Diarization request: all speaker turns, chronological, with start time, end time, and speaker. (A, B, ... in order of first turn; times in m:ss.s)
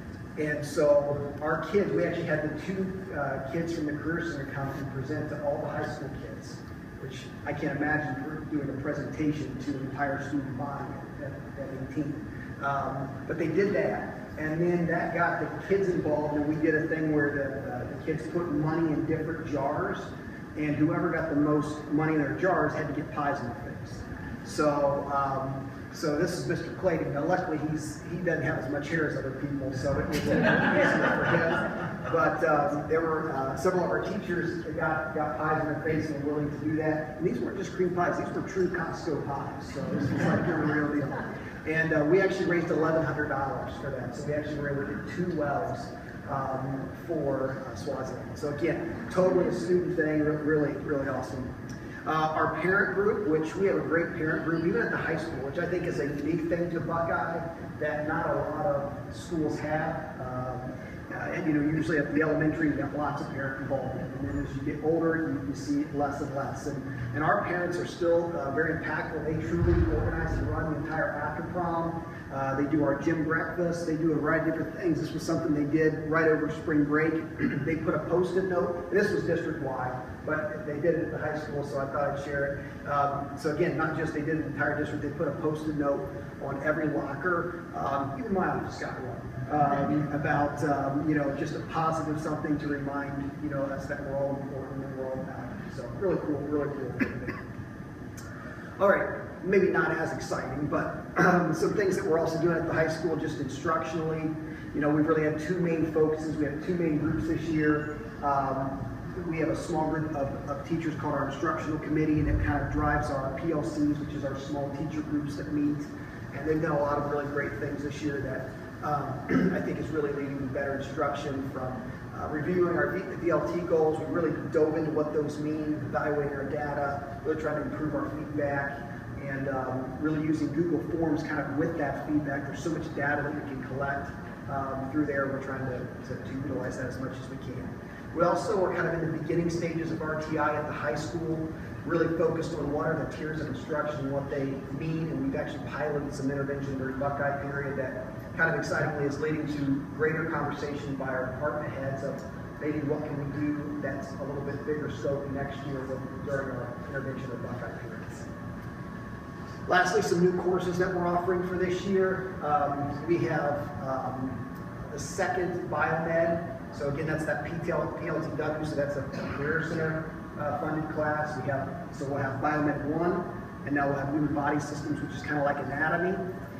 0:00.4-0:51.5 A
0:52.0-1:37.4 A
1:38.8-2:38.3 A
2:39.6-2:56.2 A